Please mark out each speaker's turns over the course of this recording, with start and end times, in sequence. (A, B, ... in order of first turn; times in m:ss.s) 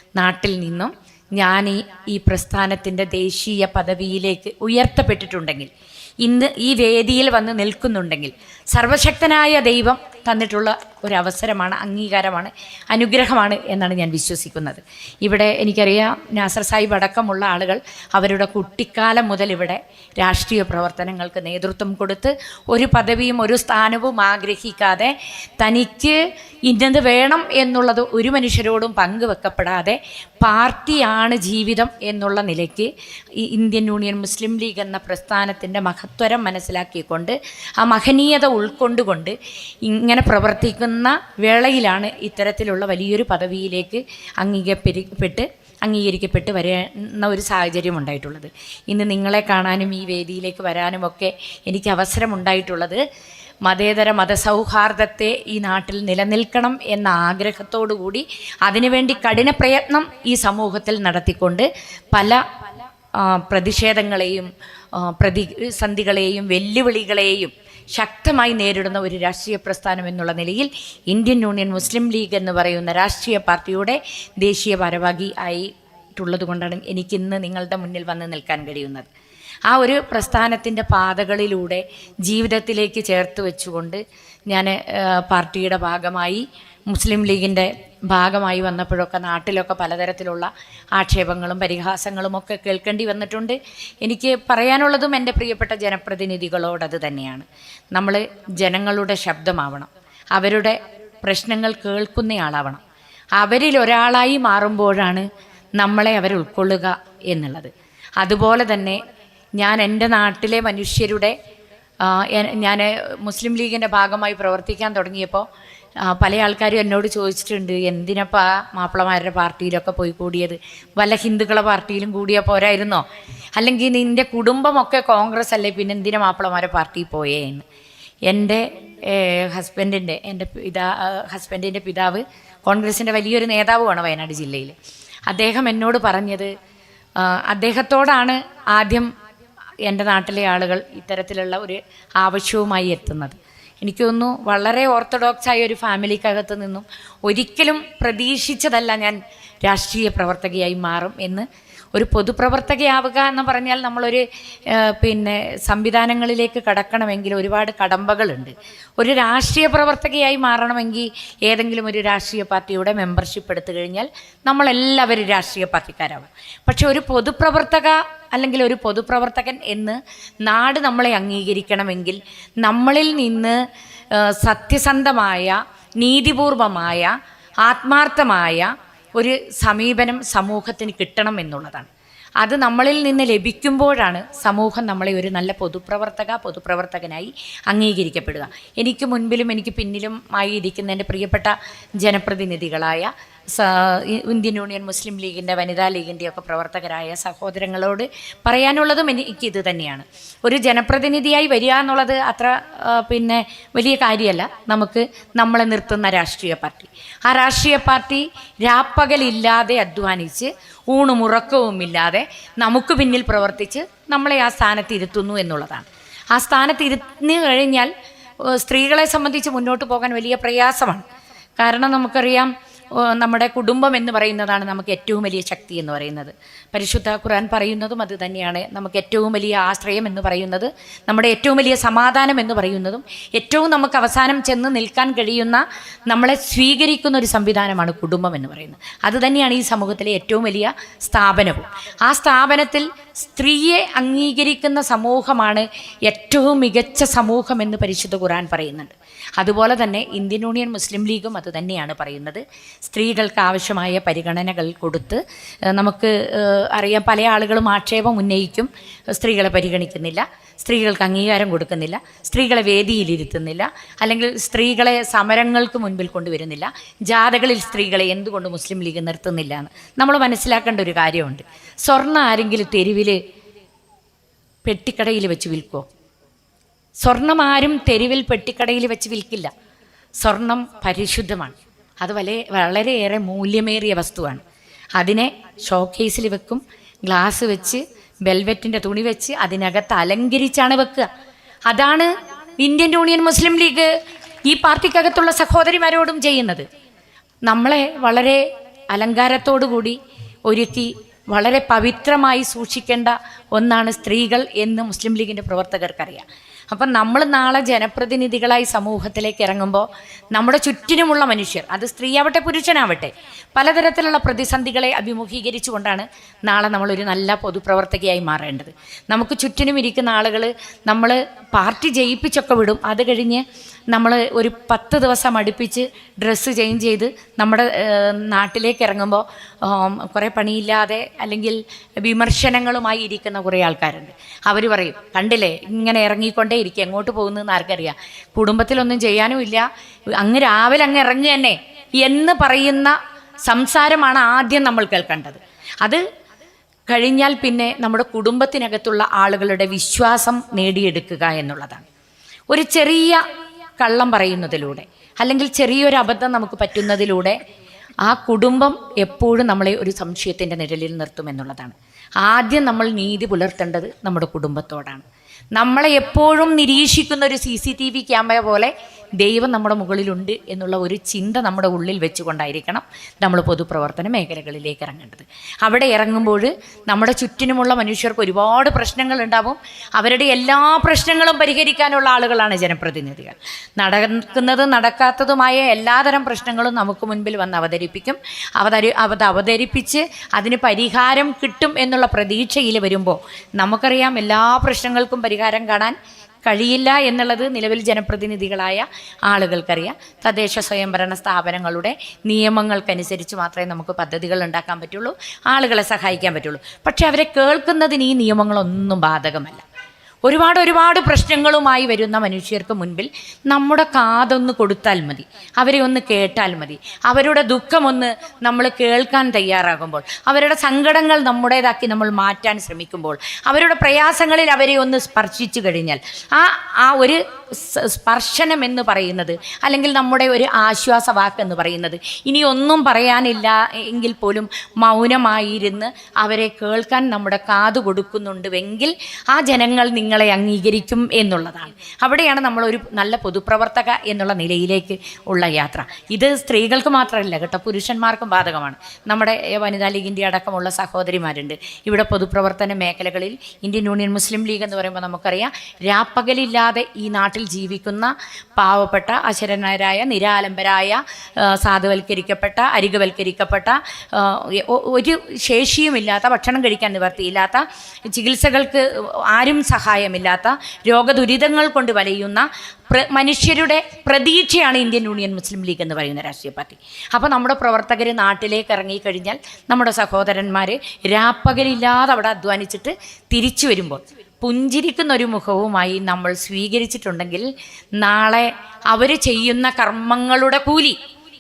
0:00.2-0:53.0 A
0:53.6-1:02.4 A
1:03.2-1:19.1 A
1:19.7-1:42.8 A
1:43.4-1:45.3 A
1:45.8-1:49.0 A
1:49.6-1:51.4 A
1:52.0-1:55.4 A
1:56.0-2:03.0 A
2:03.6-2:07.6 A
2:08.3-2:14.8 A
2:15.3-2:16.5 A
2:17.2-2:19.1 A
2:19.9-2:53.6 A
2:54.1-2:57.1 A
2:57.6-3:01.9 A
3:02.4-3:37.9 A
3:38.4-3:41.0 A
3:41.6-4:33.2 A
4:34.7-4:35.9 A
4:37.0-4:39.5 A
4:40.2-4:44.4 A
4:45.0-4:51.1 A
4:51.7-4:53.9 A
4:54.5-4:56.7 A
4:57.5-5:00.0 A
5:00.5-5:39.7 A
5:40.2-5:43.0 A
5:43.5-5:46.0 A
5:46.9-5:51.8 A
5:52.5-5:53.2 A
5:53.8-5:57.4 A
5:58.0-6:05.0 A
6:05.6-6:49.6 A
6:50.3-8:07.5 A
8:08.0-8:11.0 A